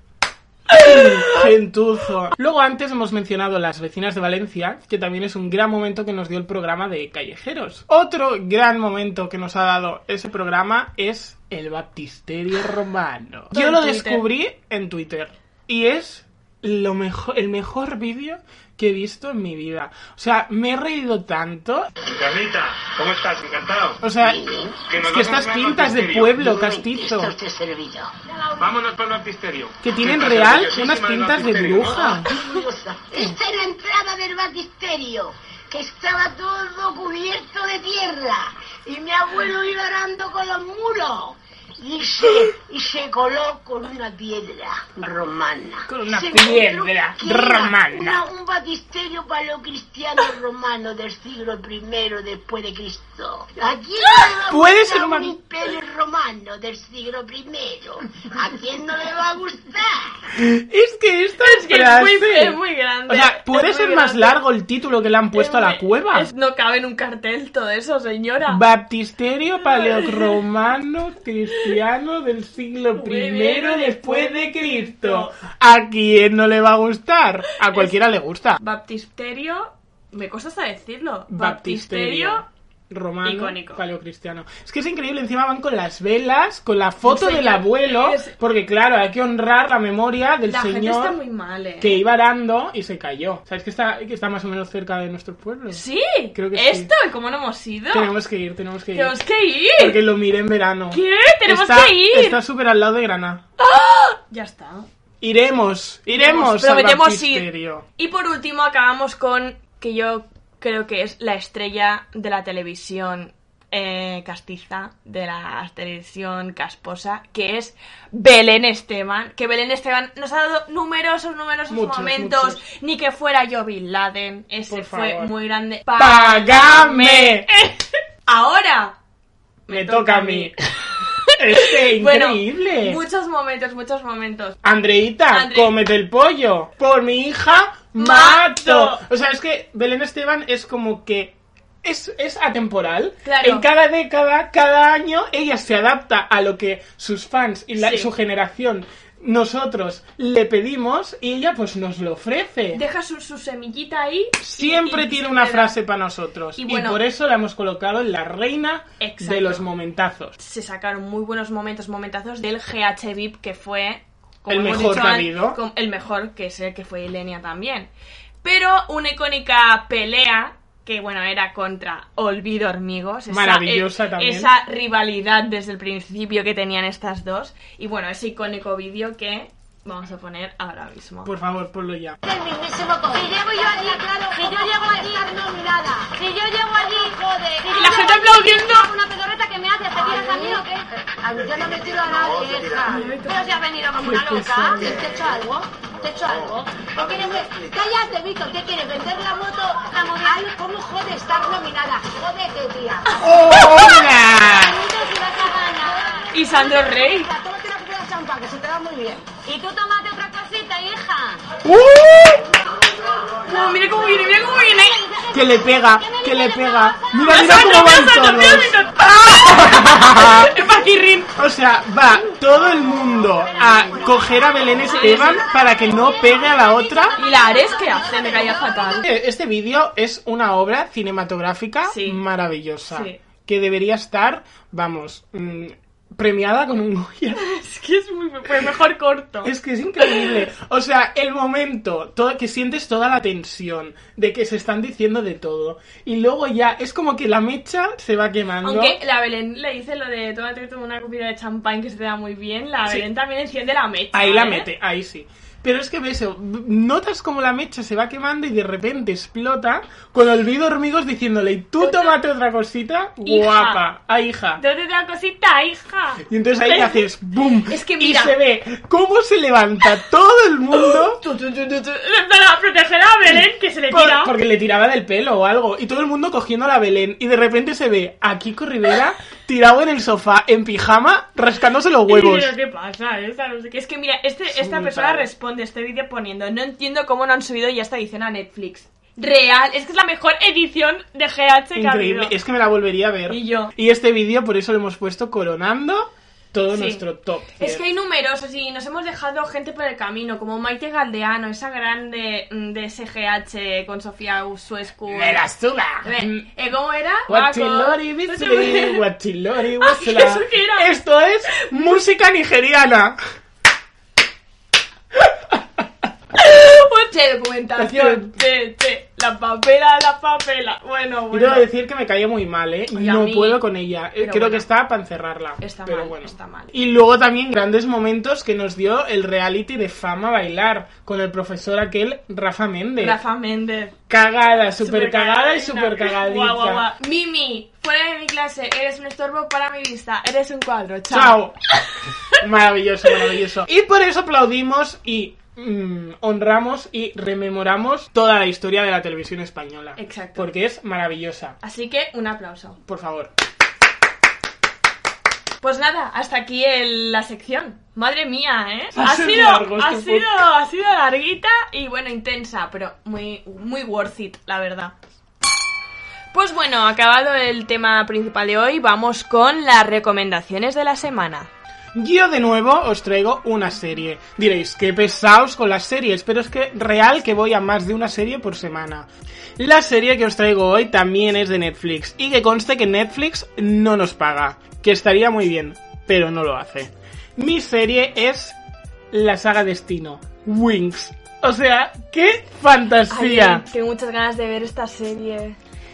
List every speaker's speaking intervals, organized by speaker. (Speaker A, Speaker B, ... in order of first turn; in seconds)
Speaker A: 0.7-1.4, 13.5-14.2, 61.4-64.4, 65.3-68.6, 69.7-70.3, 72.9-75.4, 78.6-82.5, 83.2-83.8, 87.0-88.3, 90.5-92.0, 95.7-98.1, 98.9-100.0, 100.9-102.4, 103.6-104.9, 106.1-128.9, 129.7-134.6, 135.3-135.7, 137.9-139.0, 143.2-143.7, 147.8-148.1, 152.7-155.7, 156.6-157.0, 159.0-159.6, 160.4-167.9, 168.4-181.3, 187.7-188.9, 192.8-193.6, 206.3-207.3, 213.5-215.0, 217.3-221.3, 224.9-225.6, 227.2-229.0, 231.8-232.2, 232.9-233.2, 237.4-240.4, 248.6-254.7, 261.8-262.1, 263.2-263.8, 264.6-267.1, 267.7-268.4, 270.8-274.3, 282.1-292.3, 293.3-293.7, 296.7-297.0, 297.6-305.4, 306.0-309.0, 309.8-310.9, 316.4-321.6, 322.9-323.6, 324.2-324.7, 325.6-326.7, 333.0-333.9, 334.8-341.4, 350.0-350.5, 351.6-352.8, 355.6-364.9, 366.3-371.5, 393.1-395.6
Speaker B: 0.7-21.9, 24.0-24.4, 25.0-27.4, 29.8-32.3, 45.9-48.2, 54.5-55.4, 60.3-66.3, 68.5-78.6, 81.3-91.2, 91.8-96.9, 97.9-99.2, 99.8-103.4, 105.2-107.8, 121.7-122.6, 124.7-125.3, 126.0-127.5, 129.7-130.6, 131.4-133.0, 134.6-152.8, 154.4-160.3, 164.5-165.6, 173.3-174.5, 181.2-182.2, 194.0-195.0, 203.2-204.8, 211.6-212.4, 215.3-220.5, 221.3-227.2, 229.0-237.4, 239.4-249.0, 254.1-264.6, 266.2-271.2, 273.3-282.5, 284.5-285.3, 291.7-297.8, 305.1-306.5, 307.3-313.2, 317.8-318.3, 321.3-333.2, 334.1-336.9, 341.1-341.5, 342.3-351.6, 352.9-353.3, 358.9-360.3, 371.9-388.6, 389.1-393.6
Speaker C: 22.1-24.0, 24.9-26.3, 28.6-32.2
Speaker D: 24.2-24.8, 26.3-28.1, 31.9-60.1
Speaker E: 28.3-28.8, 182.2-211.4, 215.0-217.4, 223.6-228.9